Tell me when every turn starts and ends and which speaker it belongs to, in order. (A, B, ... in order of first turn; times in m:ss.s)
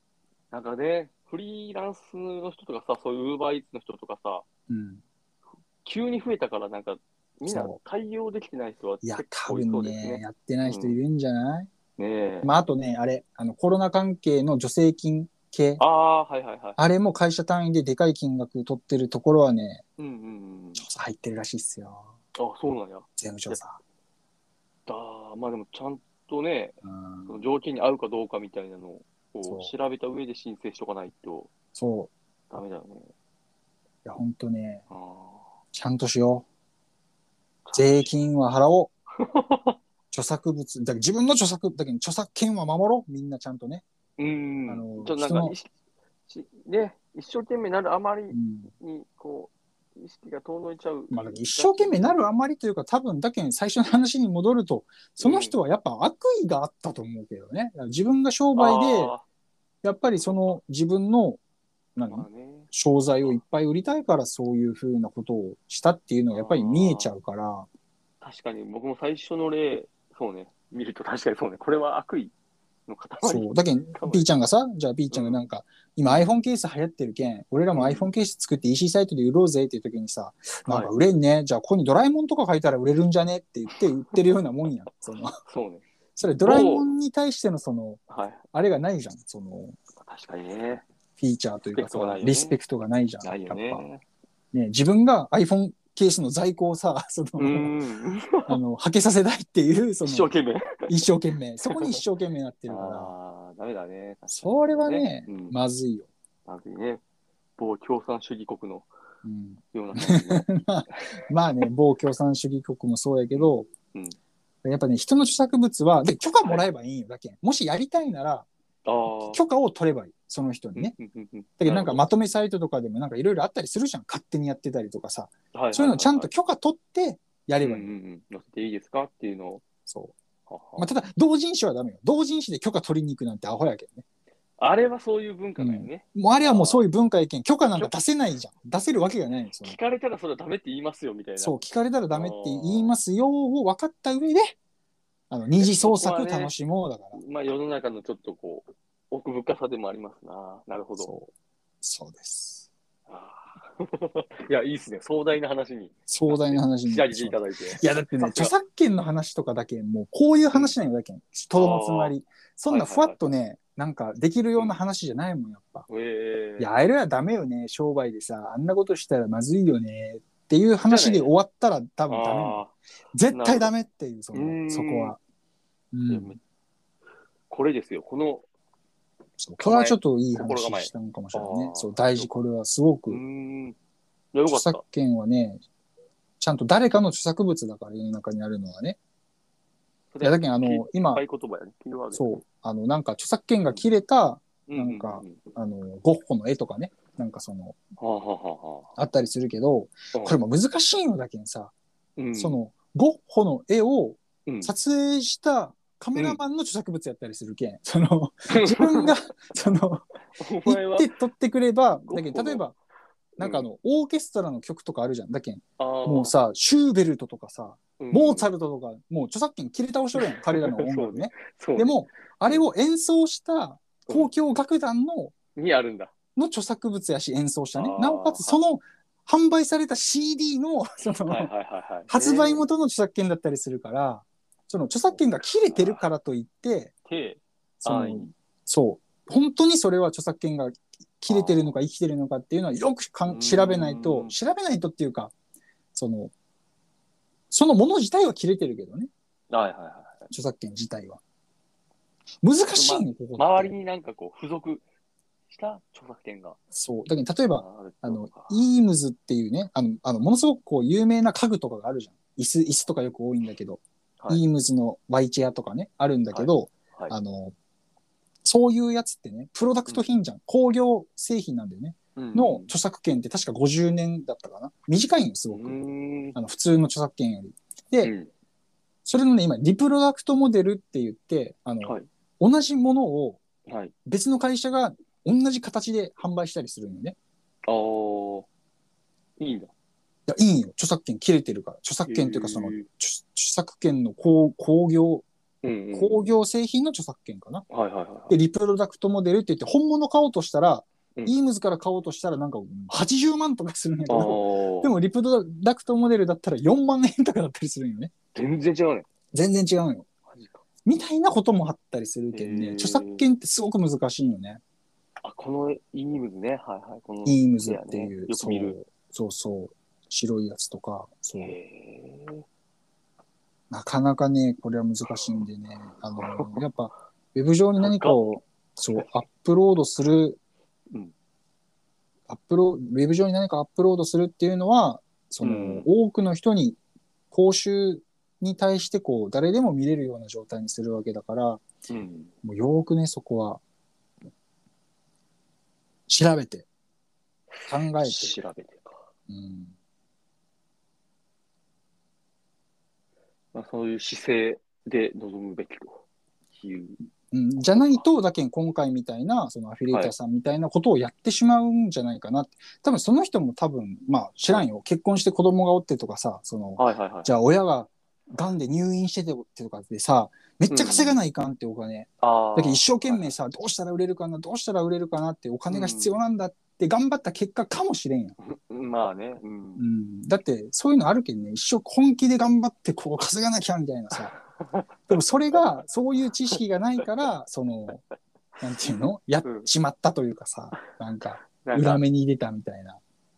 0:00.5-0:04.4 A
0:04.7-0:05.0 B
0:05.8-0:11.0 A
0:07.5-0:07.8 B
0:09.0-0:11.7 B
0:12.0-0:12.5 A
0:12.4-0:15.8 B
0:15.8-0:16.8 A
0:16.8-0:19.8 B
0:20.0-0:20.8 A
0:20.8-0:22.1 B
0:22.4-0:23.6 A
0:23.2-0:23.8 B
0:24.9-0:31.5 A
0:26.8-0:27.4 B
0:29.5-0:29.7 B
0:31.8-0:32.1 B
0:32.5-0:33.1 A
0:34.0-0:34.8 B
0:34.9-0:35.5 A
0:35.7-0:36.4 B
0:37.6-0:38.1 A
0:37.7-0:38.9 B
0:39.2-0:39.8 A
0:40.1-0:43.8 B
0:44.2-0:45.7 A
0:44.7-0:45.6 B
0:46.3-0:52.3 A
0:48.3-0:48.7 B
0:51.1-0:59.1 B
0:55.2-0:55.6 A
0:58.6-0:59.2 A
0:59.8-1:01.4 B
1:00.1-1:00.6 A
1:02.0-1:07.7 B
1:02.1-1:03.4 A
1:06.3-1:07.1 A
1:08.2-1:12.3 A
1:12.9-1:14.3 A
1:13.2-1:25.4 B
1:15.1-1:15.5 A
1:17.7-1:18.1 A
1:20.7-1:20.9 A
1:25.4-1:25.8 A
1:26.2-1:29.8 B
1:26.4-1:26.9 A
1:28.1-1:28.4 A
1:30.0-1:30.8 A
1:31.2-1:33.8 B
1:31.7-1:32.6 A
1:33.2-1:34.0 A
1:34.5-1:37.8 B
1:37.4-1:38.6 A
1:38.5-1:40.3 B
1:40.0-1:40.9 A
1:40.9-1:43.1 B
1:41.6-1:42.0 A
1:42.7-1:45.6 A
1:44.3-1:46.1 B
1:46.5-1:47.0 A
1:47.6-1:48.9 A
1:49.2-1:53.7 B
1:49.7-1:51.6 A
1:53.3-1:54.2 A
1:54.6-1:58.5 B
1:56.4-1:56.7 A
1:58.8-1:59.4 A
1:59.2-2:00.9 B
2:00.8-2:02.0 A
2:01.6-2:07.9 B
2:05.5-2:06.3 A
2:07.6-2:09.6 A
2:09.9-2:10.1 B
2:10.5-2:11.0 A
2:10.8-2:14.0 B
2:14.6-2:16.9 A
2:15.6-2:19.8 B
2:19.6-2:21.6 A
2:21.4-2:24.6 B
2:22.1-2:23.0 A
2:25.3-2:27.2 B
2:25.6-2:26.5 A
2:27.1-2:31.1 A
2:31.0-2:31.3 B
2:31.8-2:32.7 B
2:33.1-2:38.5 A
2:36.1-2:45.9 B
2:41.5-2:42.2 A
2:42.7-2:43.2 A
2:45.9-2:46.7 A
2:46.6-2:55.2 B
2:50.8-2:51.3 A
2:52.1-2:52.8 A
2:53.3-2:53.7 A
2:54.3-2:55.2 A
2:55.9-2:56.4 B
2:56.1-2:56.4 A
2:57.5-2:58.5 A
2:59.4-3:03.2 B
2:59.6-3:02.3 A
3:03.1-3:03.8 A
3:04.3-3:04.8 A
3:04.5-3:05.6 B
3:06.4-3:09.0 B
3:10.1-3:12.4 A
3:10.2-3:11.2 B
3:12.1-3:17.8 B
3:14.7-3:15.4 A
3:18.0-3:19.0 A
3:19.0-3:21.7 B
3:20.1-3:20.4 A
3:22.2-3:22.6 A
3:22.4-3:32.8 B
3:24.5-3:24.7 A
3:26.2-3:26.4 A
3:28.5-3:29.8 A
3:30.4-3:31.1 A
3:31.9-3:32.6 A
3:33.4-3:45.3 B
3:33.4-3:33.7 A
3:35.8-3:36.4 A
3:38.0-3:38.5 A
3:40.2-3:42.7 A
3:44.1-3:44.3 A
3:45.6-3:46.1 A
3:46.4-3:51.5 B
3:47.8-3:48.6 A
3:51.3-3:52.6 A
3:52.1-3:56.9 B
3:55.2-3:56.0 A
3:57.1-3:58.3 A
3:57.8-4:05.3 B
4:01.3-4:01.7 A
4:03.3-4:04.4 A
4:06.0-4:06.3 B
4:07.5-4:09.1 B
4:09.5-4:10.3 A
4:10.3-4:11.2 B
4:12.4-4:13.7 B
4:12.7-4:14.8 A
4:15.5-4:16.6 A
4:16.7-4:27.6 B
4:17.6-4:18.7 A
4:26.3-4:27.2 A
4:28.4-4:35.8 B
4:32.2-4:32.7 A
4:35.5-4:36.4 A
4:36.4-4:38.1 B
4:38.0-4:38.3 A
4:39.0-4:43.4 B
4:41.8-4:42.1 A
4:43.7-4:43.9 A
4:44.1-4:47.2 B
4:47.6-4:48.5 A
4:49.4-4:49.7 A
4:50.3-4:55.3 B
4:52.0-4:52.9 A
4:55.6-4:56.3 A
4:55.9-4:57.6 B
4:57.7-4:58.4 A
4:58.3-5:08.1 B
5:04.1-5:05.0 A
5:08.4-5:09.1 A
5:09.3-5:10.1 B
5:10.3-5:10.6 A
5:10.8-5:14.6 B
5:12.3-5:13.2 A
5:15.2-5:18.8 A
5:17.2-5:21.6 B
5:21.4-5:22.5 A
5:23.7-5:30.4 B
5:25.1-5:25.4 A
5:26.2-5:26.7 A
5:27.8-5:28.4 A
5:32.3-5:36.8 B
5:35.4-5:35.9 A
5:37.3-5:41.6 B
5:41.9-5:42.3 A
5:42.4-5:43.6 B
5:46.1-5:46.7 B
5:47.5-5:49.0 A
5:47.7-5:48.4 B
5:49.3-5:49.7 B
5:53.5-5:56.0 A
5:56.6-5:57.0 A
5:57.3-6:18.4 B
5:57.7-5:58.0 A
6:06.8-6:07.3 A
6:10.7-6:11.2 A
6:12.2-6:13.3 A
6:15.7-6:16.2 A
6:18.4-6:19.9 A
6:19.8-6:24.4 B
6:24.1-6:24.8 A
6:25.1-6:28.0 B
6:28.6-6:33.0 B
6:29.4-6:29.7 A
6:31.5-6:32.0 A